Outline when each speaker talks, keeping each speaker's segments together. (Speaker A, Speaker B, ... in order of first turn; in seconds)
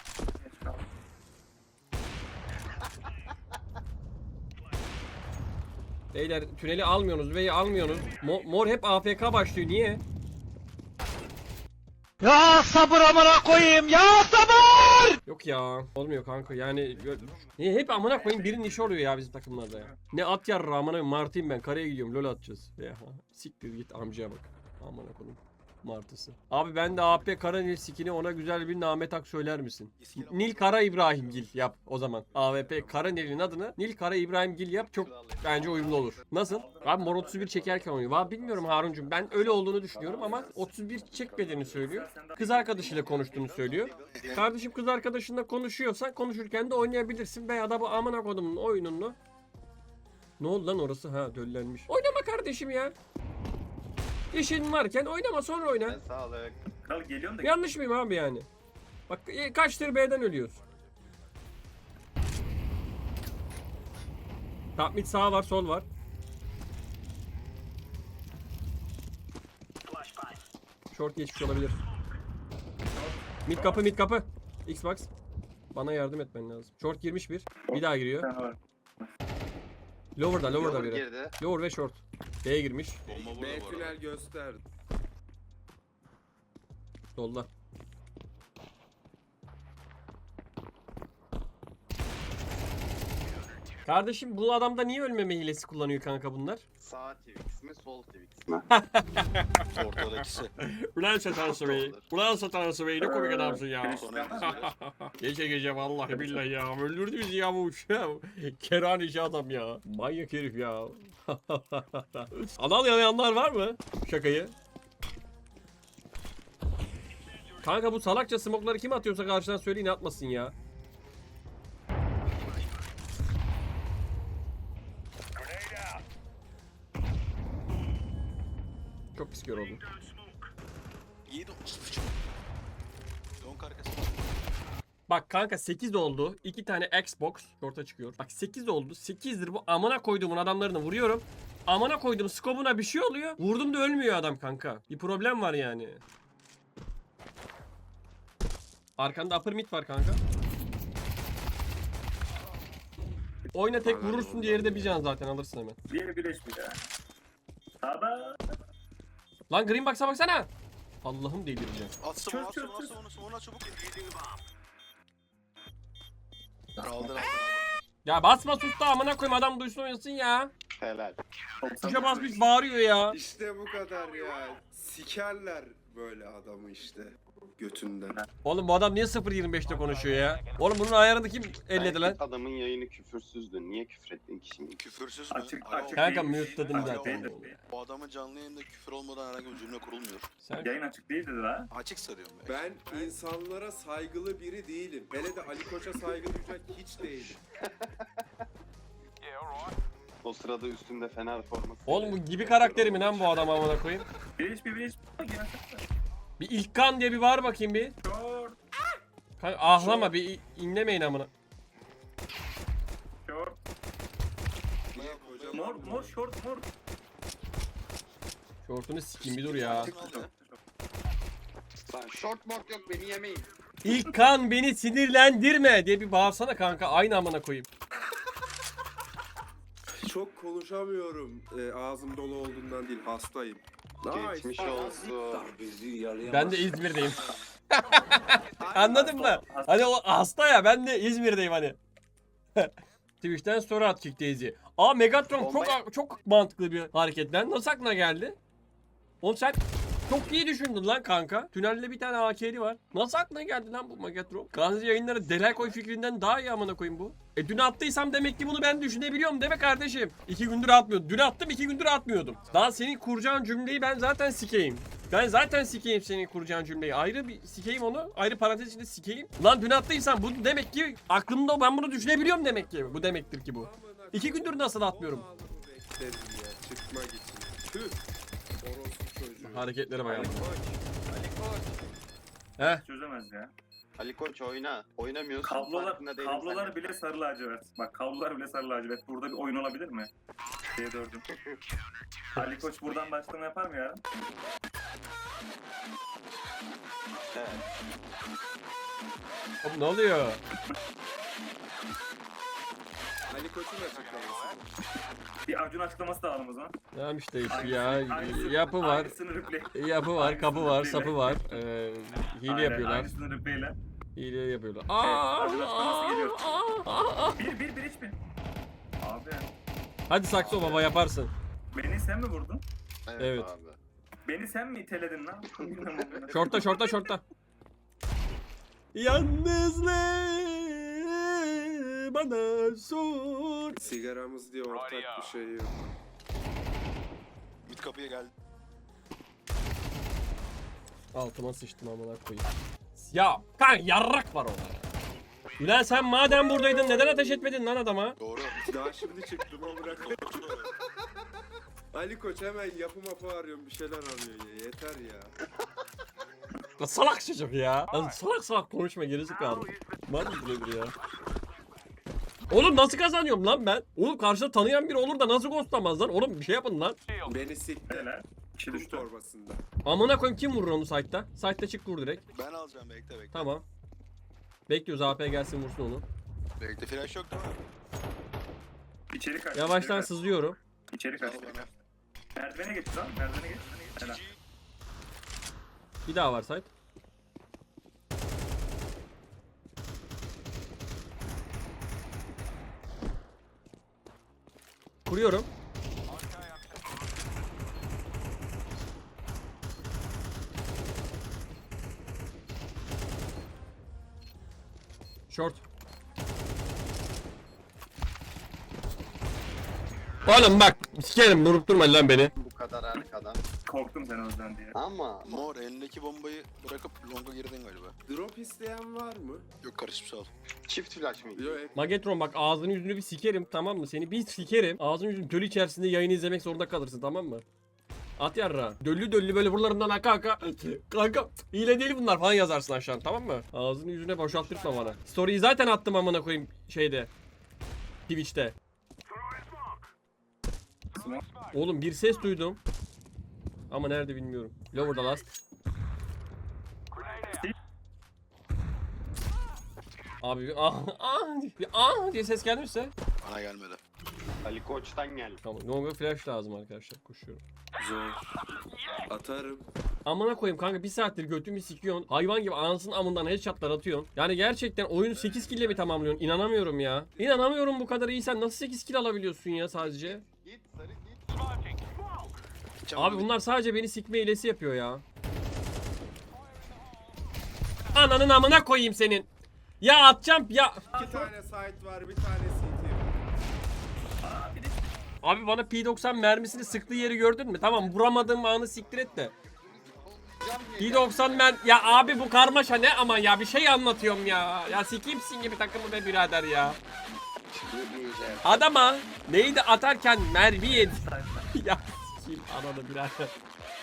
Speaker A: 0.4-0.8, 18.2-18.9, 19.7-19.9, 36.5-37.7, 41.2-43.5, 56.8-57.5, 72.9-73.8, 77.7-79.1, 103.0-104.7, 155.9-156.8, 157.8-158.4, 162.2-162.9, 171.6-172.4, 185.3-187.6, 190.6-191.7, 204.4-205.8, 208.0-208.6, 213.2-213.6, 215.5-216.7, 219.7-220.6, 239.2-239.8, 282.6-283.5, 285.4-290.1, 290.8-291.2, 292.4-294.0, 305.4-306.7, 307.5-311.6, 312.4-313.8, 315.0-316.6, 317.4-318.2, 319.0-319.5, 321.7-322.6, 324.2-326.9, 367.9-369.1, 379.1-380.1, 380.9-381.8, 382.4-384.2, 413.6-414.7, 440.9-441.2, 447.1-447.5, 480.9-481.3, 484.2-485.0, 500.8-501.5
Speaker B: 6.1-10.0, 15.2-49.1, 50.4-52.9, 54.3-56.0, 57.4-58.5, 59.1-60.6, 64.8-65.8, 70.9-71.8, 73.5-75.1, 75.7-78.3, 80.2-83.0, 87.1-87.5, 93.8-96.6, 98.7-100.0, 100.6-114.5, 117.6-120.5, 129.1-129.8, 135.1-146.0, 149.0-150.2, 153.5-155.8, 159.5-160.5, 161.0-161.9, 168.0-170.5, 171.8-173.2, 178.4-182.2, 185.9-187.5, 190.4-190.7, 201.9-204.0, 206.4-207.9, 209.4-211.3, 218.6-219.9, 223.8-227.6, 236.2-241.8, 242.6-248.4, 249.2-275.2, 279.4-280.5, 282.6-282.8, 299.6-300.4, 306.9-309.1, 309.7-313.1, 314.1-317.4, 320.1-321.3, 323.2-323.5, 326.3-327.2, 328.9-333.8, 341.1-344.8, 345.6-348.2, 356.8-360.9, 362.5-367.0, 369.8-372.2, 373.3-373.6, 374.7-376.0, 379.5-380.6, 386.1-386.7, 395.1-395.5, 405.3-405.6, 410.3-412.3, 421.7-427.4, 428.2-437.1, 438.1-438.6, 441.5-442.6, 443.7-445.3, 450.2-452.9, 455.4-457.4, 460.0-470.2, 472.9-475.0, 477.9-479.3, 479.8-480.8, 485.2-489.3, 490.8-496.8, 498.4-501.0, 501.5-503.3
Speaker C: 12.2-15.1, 235.1-236.9
Speaker D: 30.0-31.4, 44.0-44.5, 83.0-84.0, 99.7-100.5, 104.0-104.6, 131.3-132.2, 133.4-134.3, 162.0-164.3, 166.8-167.7, 184.8-190.3, 191.7-193.0, 209.8-210.1, 214.9-215.8, 219.2-220.3, 337.6-338.3, 348.2-348.7, 349.6-350.7, 372.3-373.5, 376.6-377.6, 381.1-381.7, 384.0-384.4, 415.2-417.9, 419.6-420.3, 453.2-453.8, 472.9-473.3
Speaker E: 34.9-36.2, 38.0-41.6, 42.7-44.3, 55.8-56.6, 80.5-81.3, 96.8-98.7, 101.4-102.0, 170.8-171.2, 181.7-184.8, 192.8-193.1, 195.8-198.2, 200.2-203.6, 221.9-223.5, 234.1-235.5, 245.4-245.8, 280.1-280.5, 281.1-281.7, 284.0-286.8, 291.3-291.6, 297.3-297.6, 320.3-320.9, 323.1-323.8, 325.5-326.6, 412.3-413.4, 414.7-415.5, 420.7-421.6, 454.4-455.4, 470.4-471.2, 489.5-491.5, 497.5-498.7
Speaker F: 83.1-84.6, 153.8-155.0, 173.1-178.2, 192.4-197.4, 214.9-216.2, 230.0-235.0, 238.6-239.4, 272.1-278.0, 278.6-280.8, 303.3-304.7, 333.8-335.9, 348.6-350.7, 351.9-355.3, 367.2-368.1, 368.7-369.6, 418.1-419.4, 421.3-421.7, 434.3-435.0, 457.8-458.2, 458.9-459.7, 465.3-465.6, 467.1-467.4, 480.9-483.2